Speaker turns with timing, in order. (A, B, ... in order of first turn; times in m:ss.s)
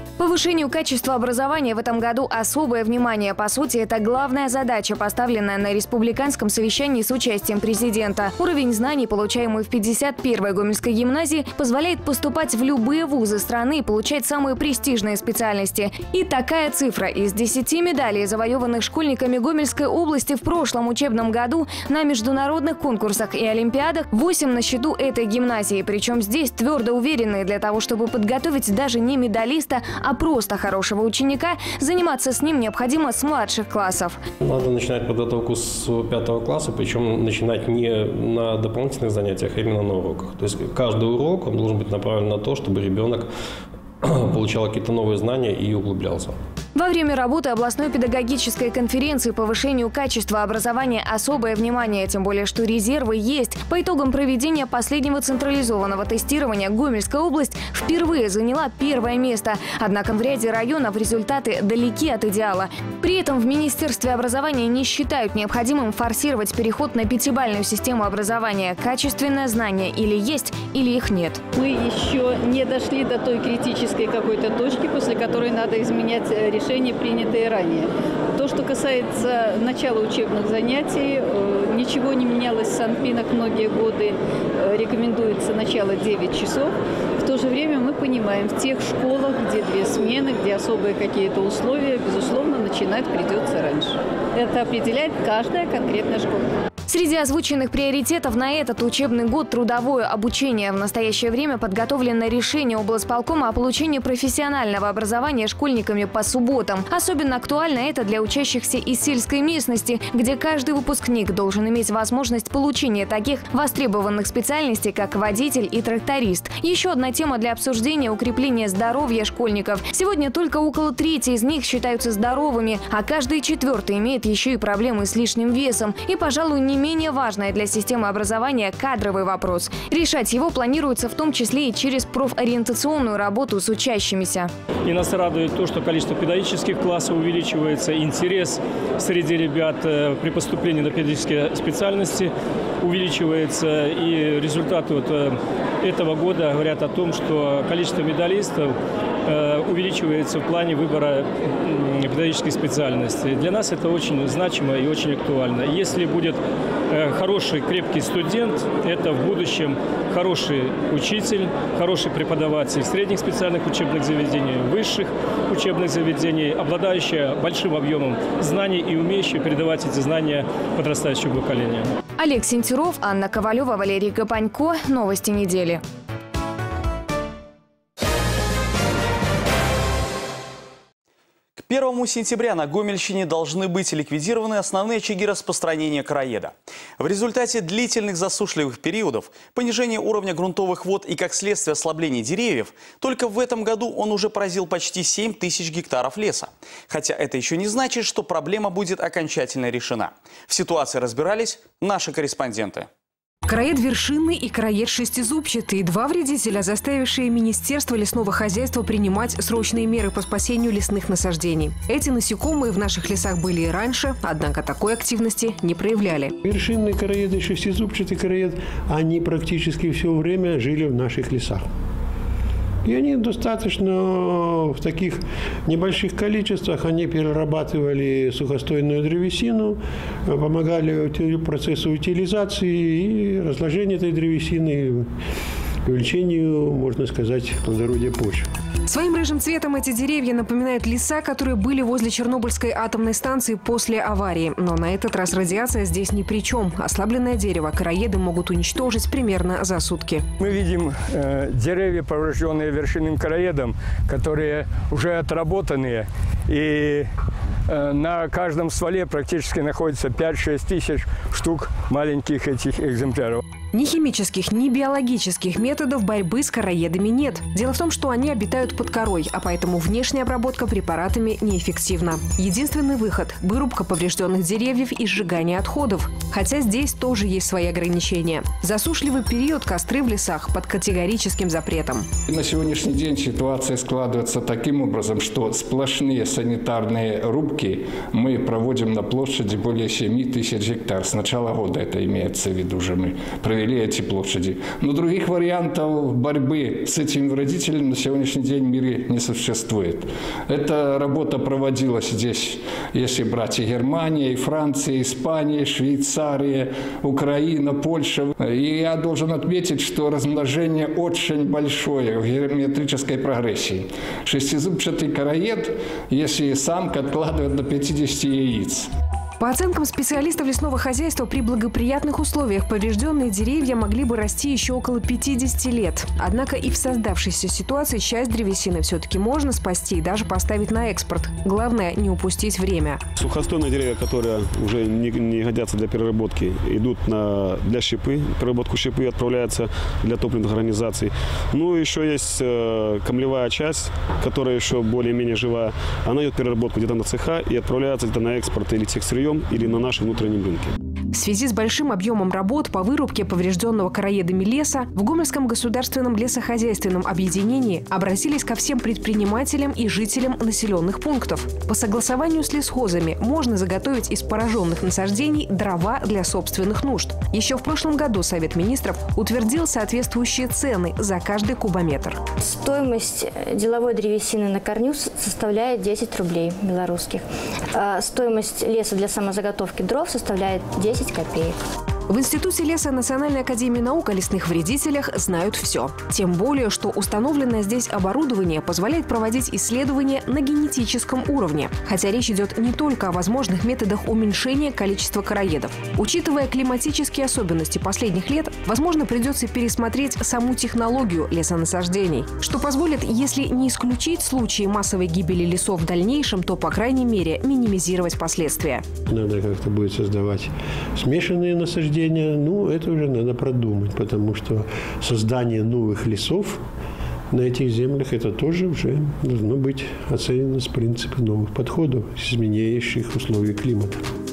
0:00.2-0:34.2 A
0:34.4-0:43.3 B
0:44.0-0:46.4 B
0:46.7-1:11.4 A
1:11.5-1:36.4 C
1:36.9-2:14.5 A
2:14.8-2:51.9 D
2:52.2-2:55.8 A
3:01.6-3:22.9 E
3:23.5-3:36.3 F
3:36.4-3:41.6 G
3:42.8-3:55.1 G
3:55.8-3:58.5 G
3:58.8-4:10.3 F
4:10.4-4:17.1 H
4:17.7-4:23.4 H
4:23.7-4:42.1 F
4:42.3-5:18.9 I
5:19.4-5:33.0 F
5:33.2-5:50.7 J
5:51.1-6:12.2 F
6:12.4-6:21.6 K
6:22.1-6:48.9 F
6:49.1-6:56.6 G
6:57.3-7:04.0 G